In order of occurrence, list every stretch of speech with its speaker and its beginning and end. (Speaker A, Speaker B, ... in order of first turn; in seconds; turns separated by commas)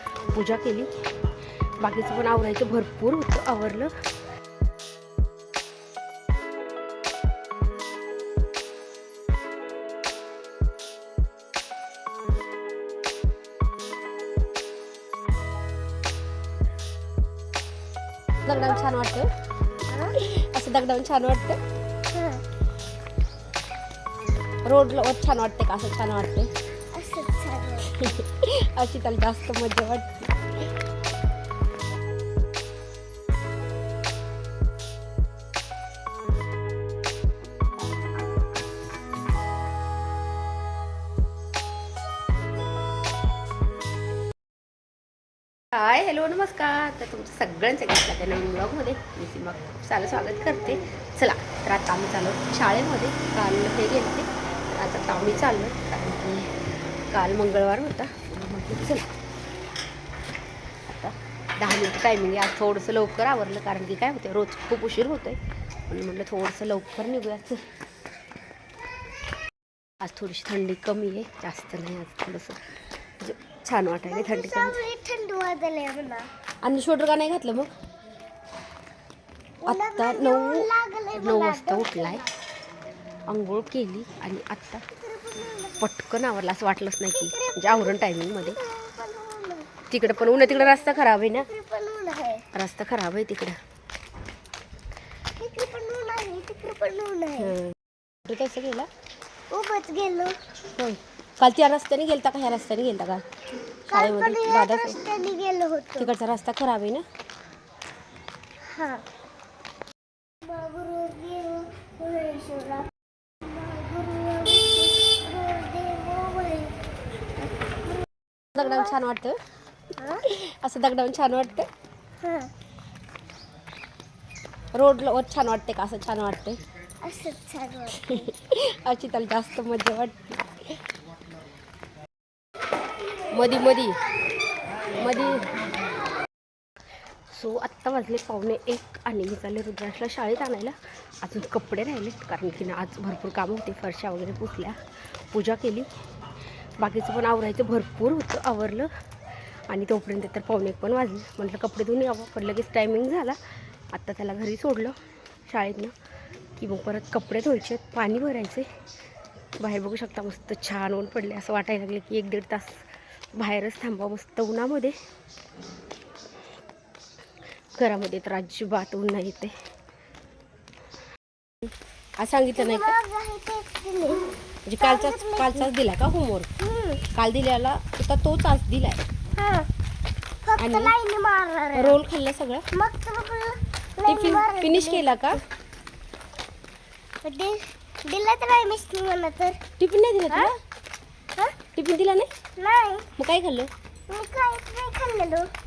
Speaker A: 0.3-0.9, Speaker A: 1.8-4.0, Speaker A: 18.4-19.3, Speaker B: 18.5-18.8, Speaker B: 19.9-20.1, Speaker A: 20.1-21.6, Speaker B: 22.1-22.4, Speaker A: 24.6-26.5, Speaker B: 26.9-28.0, Speaker A: 27.8-30.3, Speaker A: 45.7-56.5, Speaker A: 57.1-59.0, Speaker A: 61.0-65.4, Speaker A: 65.9-67.6, Speaker A: 70.0-72.6, Speaker A: 73.2-74.8, Speaker B: 74.1-76.3, Speaker A: 76.6-77.7, Speaker B: 79.6-82.3, Speaker A: 79.7-82.2, Speaker A: 83.3-84.8, Speaker B: 85.0-85.9, Speaker A: 85.8-88.6, Speaker B: 87.2-92.5, Speaker A: 89.9-91.5, Speaker A: 92.5-93.6, Speaker B: 95.4-97.6, Speaker A: 97.4-97.7, Speaker A: 98.2-98.9, Speaker B: 99.5-100.4, Speaker A: 100.8-103.2, Speaker B: 103.9-106.1, Speaker A: 103.9-105.0, Speaker A: 106.0-107.1, Speaker B: 108.7-109.0, Speaker B: 110.4-112.9, Speaker B: 113.4-116.8, Speaker B: 117.4-118.0, Speaker A: 118.5-119.4, Speaker B: 118.6-119.0, Speaker B: 120.0-120.2, Speaker A: 120.2-121.7, Speaker B: 122.2-122.5, Speaker A: 124.7-126.6, Speaker B: 127.0-128.3, Speaker A: 127.9-130.4, Speaker A: 133.3-134.0, Speaker A: 135.0-135.5, Speaker A: 137.3-145.9, Speaker A: 146.8-148.9, Speaker A: 149.7-153.4, Speaker A: 153.9-155.9, Speaker A: 156.6-158.7, Speaker A: 159.6-165.0, Speaker A: 167.8-169.6, Speaker A: 172.2-173.0, Speaker B: 172.5-175.7, Speaker A: 174.7-176.5, Speaker B: 176.6-177.0, Speaker A: 177.1-179.0, Speaker B: 179.4-179.7, Speaker B: 180.4-182.0, Speaker A: 180.6-180.9, Speaker A: 181.7-182.7, Speaker B: 182.7-185.4, Speaker A: 184.0-185.4, Speaker B: 187.2-189.6, Speaker A: 189.8-190.6, Speaker A: 191.7-192.3, Speaker B: 192.6-193.1, Speaker A: 193.2-193.7, Speaker B: 194.1-195.5